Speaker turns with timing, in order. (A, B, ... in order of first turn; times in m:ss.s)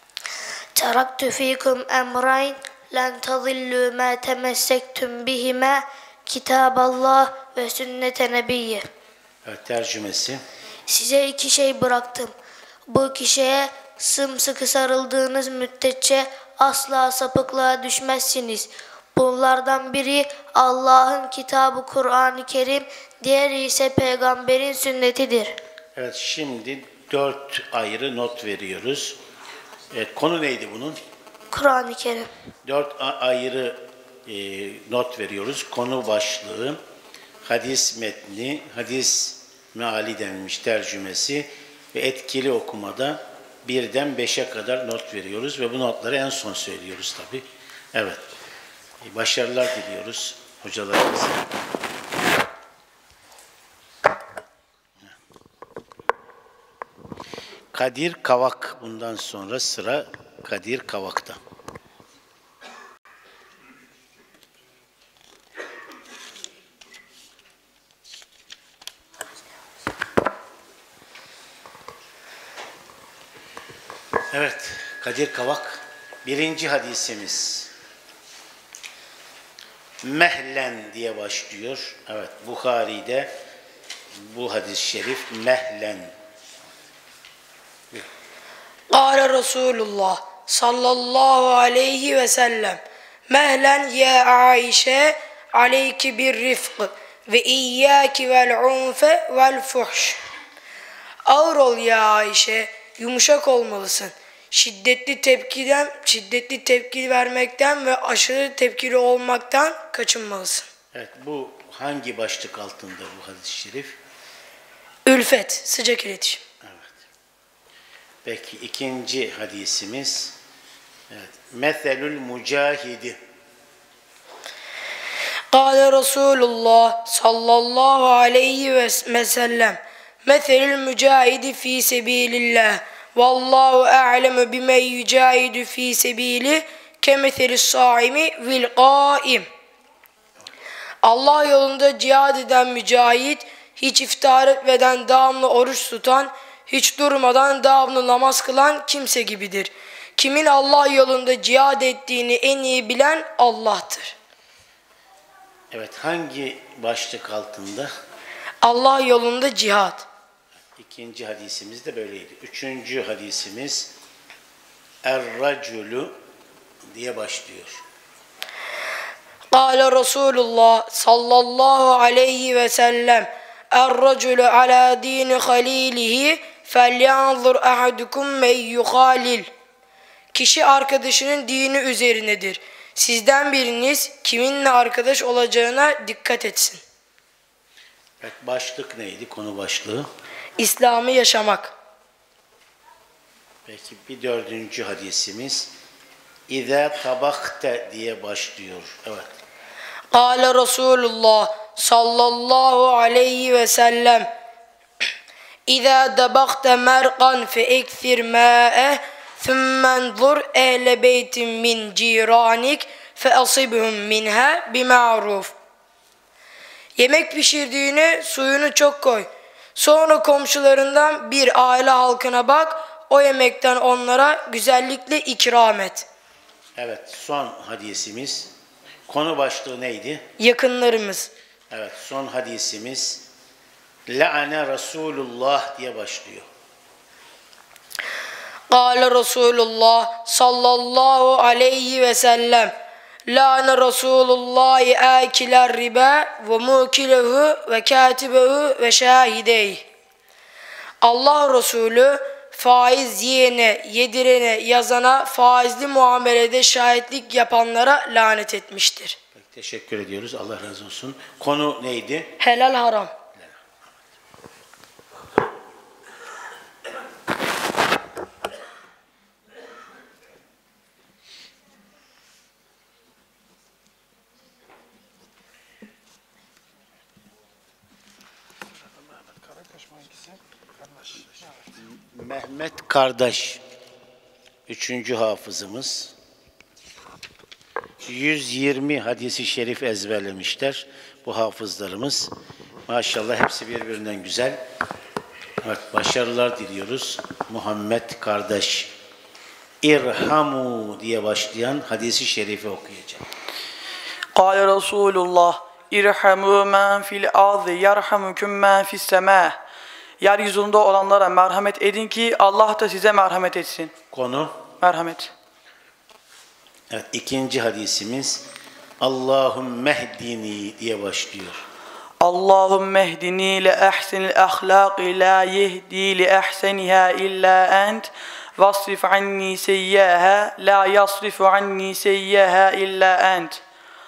0:00.8-0:08.8 A
0:09.4-0:10.4 B
0:10.9-0:12.3 A
0:12.9-0:25.6 A
0:26.0-0:29.2 B
0:29.9-0:31.0 B
0:31.5-0:32.3 A
0:32.6-0:36.8 B
0:37.4-0:48.2 B
0:49.0-0:51.5 B
0:57.7-1:01.4 B
1:14.3-1:17.7 B
1:20.0-1:23.3 B
1:24.2-1:26.1 B
1:28.9-1:40.2 C
1:41.3-1:50.7 C
1:50.9-1:54.0 B
1:55.1-1:56.4 C
1:56.6-1:57.0 B
1:58.2-2:00.4 B
2:01.1-2:03.2 B
2:05.5-2:19.5 C
2:21.0-2:34.2 C
2:35.7-2:37.9 B
2:38.6-2:40.1 C
2:40.8-2:43.9 B
2:45.0-2:46.2 B
2:46.9-2:47.8 B
2:49.5-2:59.5 C
3:00.3-3:06.8 C
3:08.2-3:10.1 B
3:10.6-3:11.7 C
3:13.7-3:15.7 B
3:16.5-3:19.3 B
3:20.1-3:24.3 C
3:25.7-3:35.5 C
3:37.0-3:46.1 C
3:46.8-3:48.5 B
3:49.1-3:50.3 B
3:50.4-3:51.3 C
3:51.7-3:53.3 B
3:54.1-3:56.5 B
3:58.7-4:02.8 C
4:03.3-4:09.9 C
4:11.0-4:19.2 C
4:19.4-4:22.4 B
4:22.4-4:23.1 C
4:41.6-4:43.6 B
4:44.7-4:46.2 B
4:48.0-4:52.3 B
4:52.9-4:54.6 B
4:55.6-4:58.9 B
4:59.8-5:03.3 B
5:04.4-5:09.6 D
5:10.2-5:13.9 D
5:14.1-5:14.6 B
5:14.8-5:15.3 D
5:16.9-5:18.5 B
5:19.0-5:21.6 B
5:22.2-5:33.6 D